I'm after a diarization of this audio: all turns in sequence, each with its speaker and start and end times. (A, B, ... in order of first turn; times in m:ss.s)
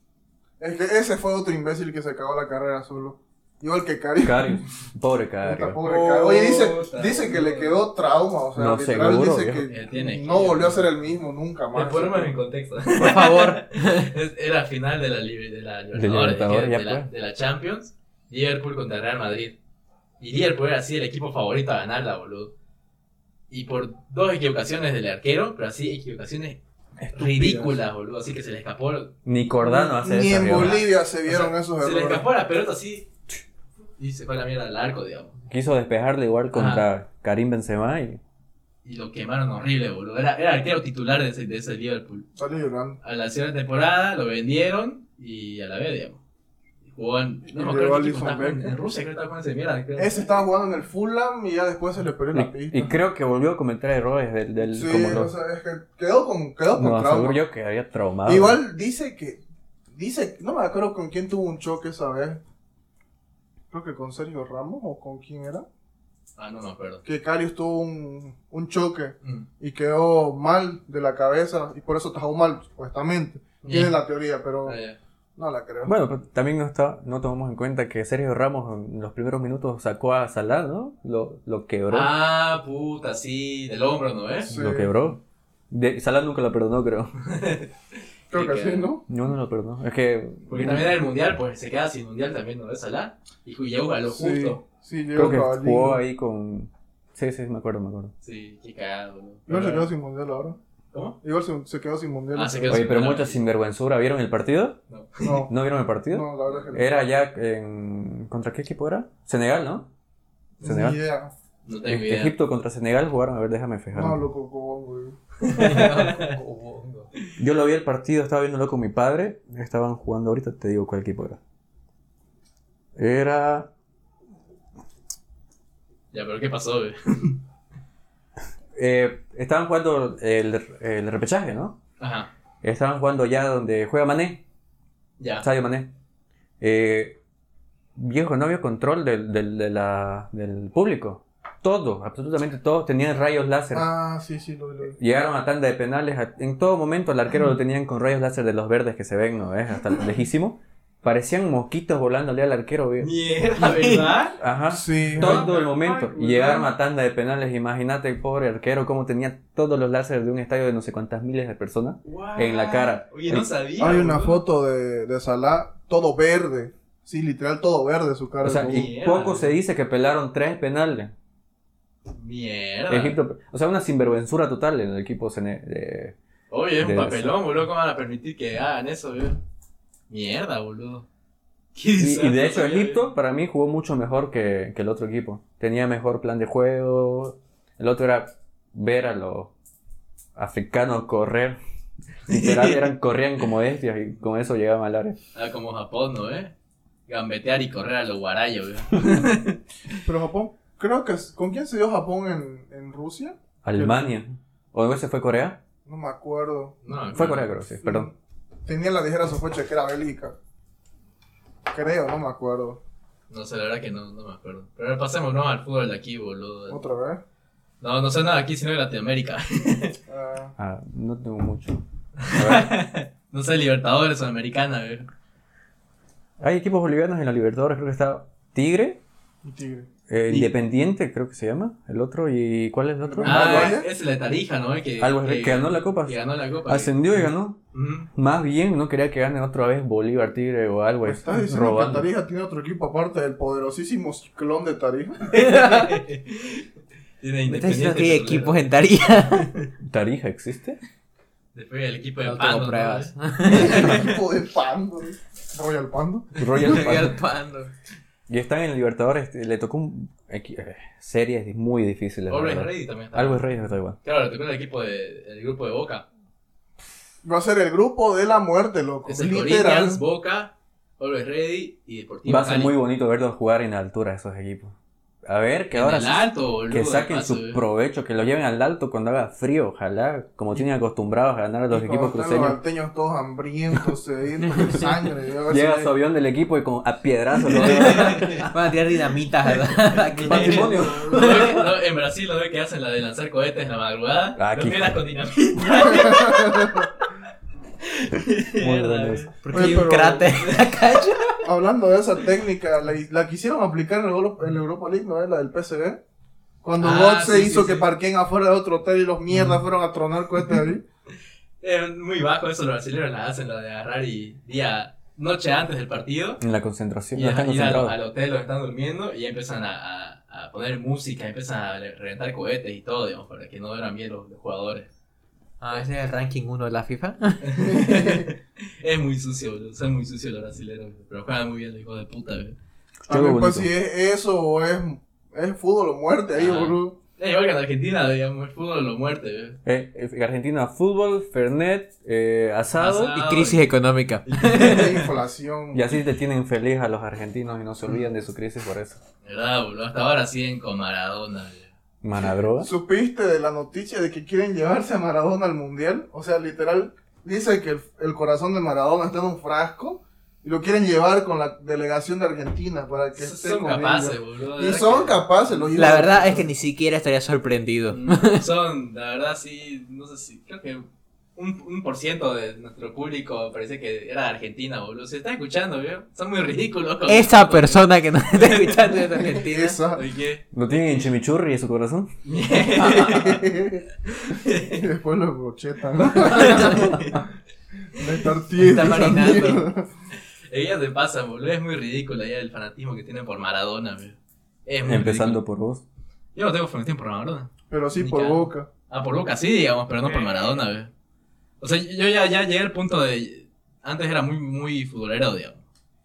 0:00.6-0:04.7 A
0:04.2-0:05.8 B
0:05.4-0:12.3 A
0:05.8-0:07.8 C
0:08.6-0:09.7 B
0:09.7-0:10.9 C
0:11.7-0:19.6 C
0:13.0-0:14.1 D
0:15.9-0:17.1 B
0:20.2-0:22.5 C
0:23.5-0:26.6 C
0:27.0-0:27.7 B
0:27.1-0:29.1 C
0:27.2-0:27.7 A
0:29.2-0:30.8 B
0:29.6-0:32.3 A
0:30.4-0:33.1 C
0:34.0-0:35.3 C
0:35.5-0:38.2 B
0:36.5-0:36.9 C
0:38.8-0:42.3 C
0:42.4-0:43.0 A
0:43.0-0:46.2 C
0:46.9-0:50.3 C
0:47.5-0:48.8 A
0:50.0-0:52.9 A
0:52.3-0:55.4 B
0:54.6-0:57.4 A
0:56.7-0:58.6 B
0:58.2-0:59.4 A
1:00.0-1:02.4 A
1:03.7-1:05.7 A
1:06.4-1:07.0 C
1:07.0-1:14.8 A
1:09.2-1:09.5 C
1:13.6-1:14.0 C
1:14.6-1:15.0 C
1:15.4-1:16.0 A
1:15.8-1:22.1 B
1:21.9-1:24.5 C
1:24.4-1:24.9 A
1:24.5-1:27.2 B
1:27.2-1:27.7 C
1:28.3-1:29.0 A
1:28.3-1:28.9 C
1:29.1-1:30.9 B
1:30.5-1:34.6 C
1:34.1-1:36.0 A
1:35.2-1:38.1 B
1:38.2-1:39.9 C
1:39.5-1:40.6 A
1:40.9-1:41.2 C
1:41.2-1:42.9 A
1:42.3-1:43.4 C
1:42.7-1:44.8 B
1:44.9-1:45.3 C
1:45.2-1:45.5 A
1:45.4-1:49.9 B
1:46.1-1:47.0 A
1:50.6-1:51.3 A
1:50.6-1:51.0 B
1:51.6-1:52.3 C
1:51.9-1:54.2 B
1:53.9-1:55.2 A
1:55.4-1:56.4 C
1:55.5-1:57.1 D
1:57.4-2:01.4 B
2:03.0-2:03.7 B
2:06.1-2:07.4 C
2:08.8-2:11.8 B
2:12.0-2:12.3 C
2:12.6-2:14.4 B
2:15.2-2:15.4 C
2:15.4-2:15.9 B
2:16.6-2:17.2 B
2:18.0-2:23.9 B
2:23.7-2:25.0 A
2:24.9-2:33.1 B
2:33.0-2:34.4 C
2:34.4-2:43.5 B
2:34.7-2:35.5 A
2:35.2-2:36.7 C
2:42.0-2:44.4 C
2:43.8-2:48.9 A
2:48.4-2:51.1 B
2:48.6-2:49.5 C
2:52.1-2:53.2 C
2:52.9-2:56.2 B
2:56.5-2:59.4 C
2:56.8-2:57.4 B
3:00.1-3:01.1 C
3:01.8-3:03.0 C
3:02.0-3:09.5 B
3:10.4-3:11.6 B
3:12.3-3:15.2 B
3:12.3-3:12.8 C
3:15.3-3:16.5 C
3:17.1-3:20.0 C
3:20.0-3:24.0 A
3:23.6-3:25.6 B
3:25.8-3:26.8 A
3:26.8-3:27.5 C
3:27.1-3:28.1 B
3:27.8-3:28.1 A
3:28.6-3:30.4 A
3:31.7-3:32.8 A
3:33.3-3:36.8 C
3:36.7-3:37.2 A
3:37.8-3:40.0 C
3:40.1-3:40.6 A
3:40.6-3:42.7 B
3:42.2-3:45.1 C
3:46.4-3:49.0 B
3:49.4-3:49.9 A
3:50.1-3:53.8 B
3:53.0-3:53.9 A
3:53.2-3:58.1 C
3:55.0-3:57.6 B
3:58.1-4:02.1 B
4:01.0-4:05.9 A
4:05.3-4:06.7 C
4:05.4-4:05.8 D
4:07.2-4:08.7 C
4:07.5-4:09.5 D
4:09.3-4:09.7 C
4:09.8-4:10.8 B
4:11.5-4:14.2 C
4:12.2-4:14.0 D
4:13.5-4:16.5 A
4:16.4-4:17.2 B
4:16.6-4:17.7 D
4:18.3-4:24.0 B
4:22.3-4:23.4 C
4:24.0-4:26.0 C
4:27.2-4:30.0 A
4:29.1-4:32.8 C
4:32.3-4:34.8 B
4:35.3-4:42.6 B
4:35.7-4:37.6 C
4:41.7-4:45.9 A
4:45.5-4:48.5 B
4:47.6-4:51.6 D
4:47.6-4:48.5 C
4:50.2-4:51.6 B
4:50.3-4:57.0 C
4:50.6-4:50.9 A
4:54.4-4:55.0 B
4:55.6-4:56.9 A
4:57.8-5:00.6 C
4:58.6-4:59.3 B
4:59.4-5:01.4 D
4:59.5-5:00.3 A
5:01.4-5:06.0 A
5:06.6-5:10.8 A
5:06.8-5:07.9 C
5:11.6-5:16.4 C
5:16.4-5:18.0 B
5:17.1-5:24.9 C
5:25.6-5:27.8 D
5:27.4-5:32.6 C
5:27.8-5:28.3 A
5:33.1-5:33.7 B
5:33.1-5:37.0 A
5:36.4-5:39.6 C
5:39.6-5:43.2 B
5:42.8-5:43.7 C
5:43.1-5:45.1 D
5:44.3-5:45.0 C
5:44.4-5:45.8 A
5:45.7-5:49.0 B
5:49.2-5:51.7 C
5:52.0-5:52.7 B
5:52.6-6:06.5 A
6:03.2-6:05.7 C
6:05.7-6:08.4 D
6:07.9-6:19.0 C
6:17.1-6:19.8 D
6:19.1-6:20.1 A
6:19.9-6:20.4 C
6:20.5-6:22.1 B
6:22.2-6:23.4 C
6:22.9-6:27.2 A
6:24.1-6:24.8 C
6:26.0-6:27.2 C
6:26.5-6:26.7 D
6:27.9-6:29.9 A
6:28.6-6:29.6 D
6:30.5-6:35.4 C
6:34.8-6:35.8 B
6:36.4-6:40.9 C
6:37.7-6:38.7 A
6:41.6-6:45.6 C